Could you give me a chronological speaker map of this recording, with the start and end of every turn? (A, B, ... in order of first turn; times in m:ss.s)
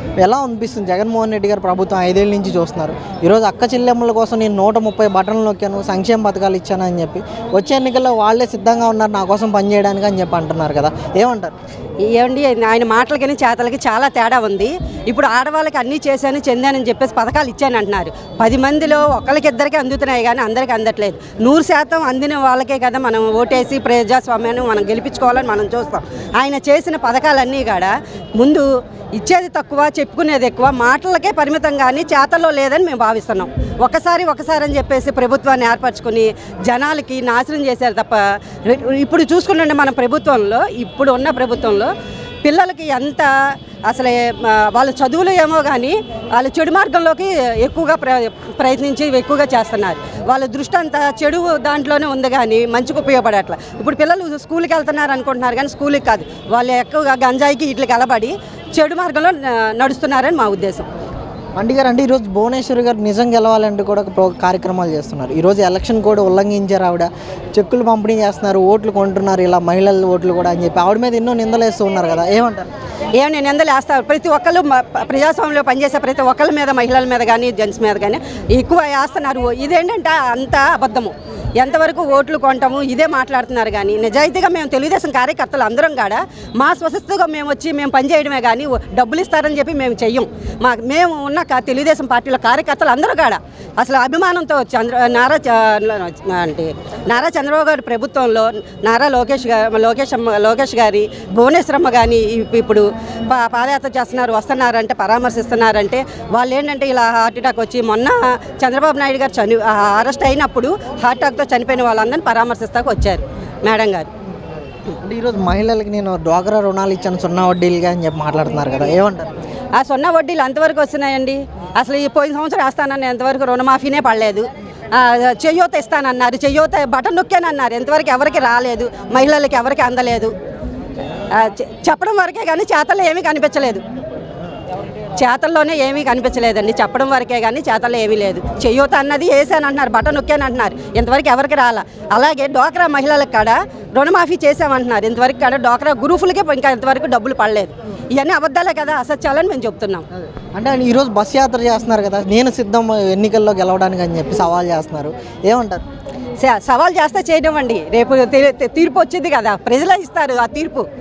0:00.2-0:11.5 A
0:12.1-0:41.9 B
0:42.4-0:43.3 B
0:43.9-1:00.9 B
1:01.6-1:12.7 A
1:13.2-1:54.1 B
1:55.0-1:59.3 A
1:59.8-2:10.3 B
2:11.3-2:13.8 B
2:15.2-2:30.0 B
2:30.6-2:35.8 A
2:36.4-2:40.8 B